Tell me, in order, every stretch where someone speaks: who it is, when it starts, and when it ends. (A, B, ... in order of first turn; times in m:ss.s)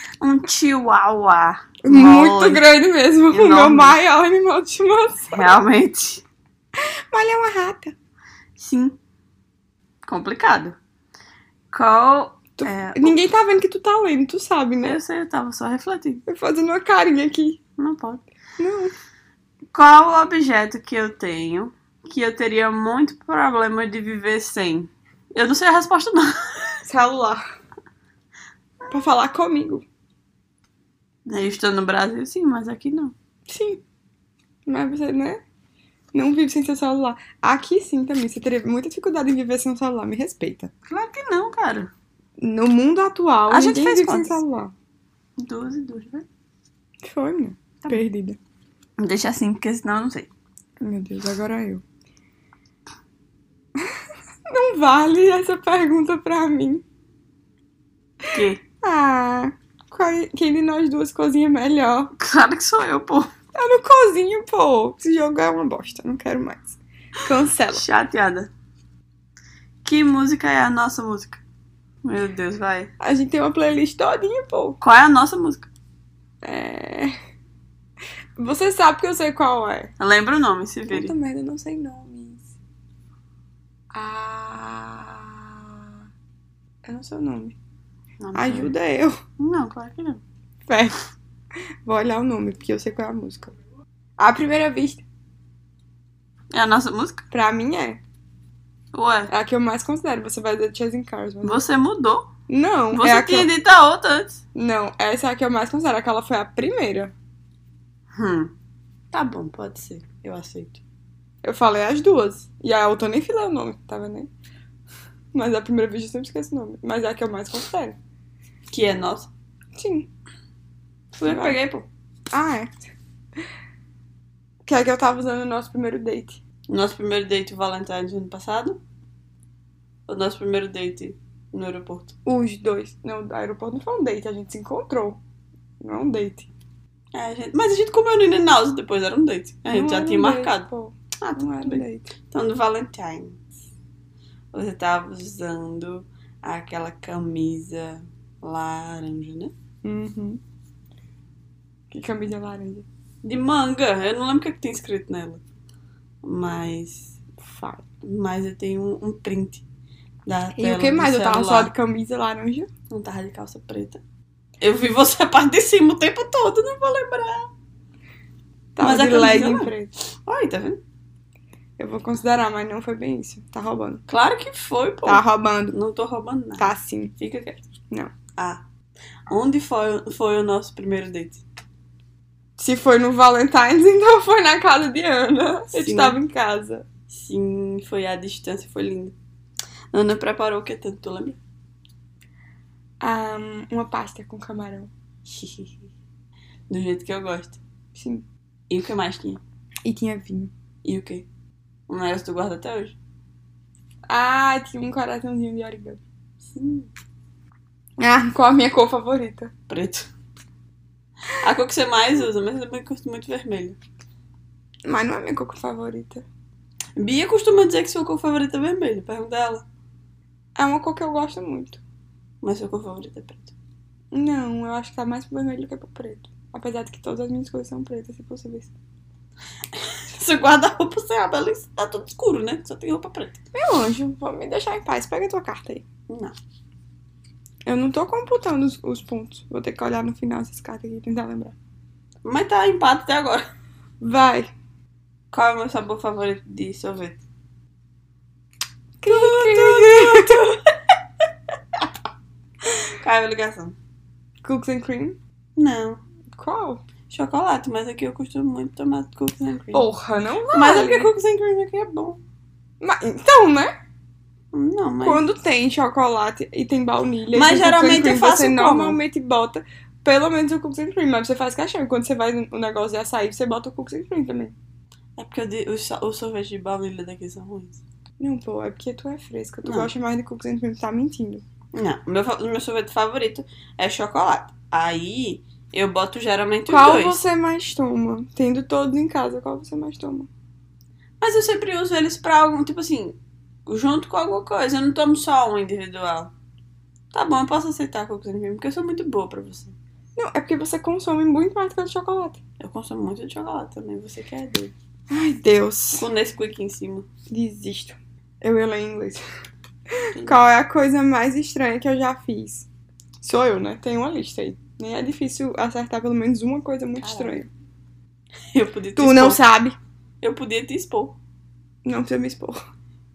0:00.2-0:02.7 A
0:01.8-0:05.6 B
0:03.3-0:04.0 A
0:05.3-0:06.2 A
0:07.1-0:07.9 B
0:08.6-0:09.0 A
0:10.0-0:10.8 A
0:11.7-0:13.2 A
0:12.6-0:15.0 B
0:14.8-0:16.2 A
0:16.3-0:17.6 B
0:17.8-0:18.2 A
0:18.6-0:18.9 B
0:19.7-0:26.8 A
0:26.8-0:27.4 B
0:28.9-0:29.8 B
0:31.2-0:33.1 A
0:33.5-0:33.8 B
0:34.6-0:35.4 B
0:36.1-0:40.7 B
0:40.9-0:41.9 A
0:42.4-0:44.7 B
0:43.5-0:44.4 A
0:45.4-0:46.2 A
0:47.0-0:48.4 B
0:49.0-0:50.3 A
0:50.8-0:51.8 B
0:54.5-0:56.8 B
0:58.3-0:58.6 A
0:58.8-1:02.1 B
1:02.2-1:03.3 A
1:03.5-1:07.8 B
1:07.7-1:08.5 A
1:09.8-1:11.4 A
1:12.0-1:12.9 A
1:13.0-1:14.8 B
1:14.8-1:15.7 A
1:16.4-1:17.1 B
1:18.4-1:19.9 B
1:20.0-1:21.1 A
1:20.9-1:22.5 B
1:23.9-1:26.0 B
1:26.8-1:27.6 B
1:28.2-1:28.7 A
1:28.3-1:29.2 B
1:29.4-1:30.2 A
1:30.7-1:31.0 B
1:31.8-1:33.5 B
1:34.2-1:35.0 B
1:36.5-1:37.2 A
1:37.3-1:38.0 B
1:38.9-1:39.3 A
1:39.3-1:41.6 B
1:41.4-1:42.3 A
1:42.5-1:43.5 B
1:42.9-1:44.4 A
1:44.5-1:47.1 B
1:48.1-1:48.5 A
1:49.1-1:50.8 A
1:51.4-1:54.3 B
1:55.3-1:58.0 B
1:58.7-1:59.3 A
1:59.7-2:00.1 B
2:01.1-2:01.9 A
2:01.2-2:01.6 B
2:02.3-2:02.9 B
2:04.6-2:06.4 B
2:06.7-2:08.8 A
2:10.1-2:12.1 A
2:12.2-2:15.2 B
2:15.8-2:16.5 B
2:17.1-2:20.7 A
2:19.6-2:22.1 B
2:21.2-2:23.4 A
2:24.5-2:29.5 A
2:29.8-2:30.4 B
2:31.9-2:32.8 B
2:33.2-2:35.4 A
2:36.2-2:37.2 A
2:37.4-2:37.8 B
2:38.0-2:39.6 A
2:40.2-2:41.7 A
2:40.6-2:42.7 B
2:42.9-2:44.0 A
2:44.6-2:47.5 A
2:48.8-2:49.9 B
2:48.8-2:50.8 A
2:51.8-2:54.0 B
2:54.1-2:57.7 A
2:55.0-2:55.8 B
2:56.6-2:57.1 B
2:58.4-2:58.6 A
2:59.3-3:01.4 A
3:02.6-3:06.8 B
3:05.7-3:06.2 A
3:07.1-3:09.2 A
3:09.9-3:11.4 A
3:13.0-3:14.9 B
3:15.2-3:15.9 A
3:16.7-3:17.6 A
3:17.9-3:18.2 B
3:18.7-3:19.4 A
3:19.8-3:20.5 B
3:20.8-3:21.2 A
3:21.9-3:23.0 A
3:24.1-3:26.0 B
3:26.4-3:26.9 A
3:28.0-3:29.5 B
3:29.7-3:30.1 A
3:31.4-3:33.8 A
3:34.8-3:36.2 B
3:37.0-3:39.6 A
3:40.6-3:41.8 B
3:42.4-3:43.5 A
3:44.1-3:48.7 B
3:50.1-3:53.4 A
3:53.5-3:55.8 B
3:56.1-3:56.3 A
3:57.6-4:01.6 B
4:02.2-4:03.4 A
4:04.0-4:04.5 B
4:05.3-4:07.2 A
4:09.0-4:10.4 B
4:09.0-4:10.7 A
4:13.0-4:13.8 A
4:14.4-4:15.2 B
4:15.6-4:16.0 A
4:16.3-4:16.8 B
4:17.1-4:19.9 A
4:19.7-4:21.1 B
4:20.5-4:22.2 A
4:22.8-4:23.7 B
4:24.5-4:25.2 A
4:25.0-4:34.5 B
4:27.3-4:29.0 A
4:35.2-4:37.8 A
4:38.2-4:41.4 B
4:39.6-4:39.9 A
4:41.7-4:47.2 A
4:46.7-4:50.3 B
4:51.2-4:56.3 A
4:57.1-4:59.8 A
5:00.2-5:02.4 B
5:02.6-5:04.7 A
5:05.1-5:06.1 B
5:06.0-5:07.1 A
5:07.3-5:09.2 B
5:10.1-5:12.7 B
5:13.2-5:17.5 B
5:17.0-5:17.4 A
5:18.5-5:19.4 A
5:19.0-5:19.8 B
5:20.2-5:21.2 A
5:21.8-5:22.6 B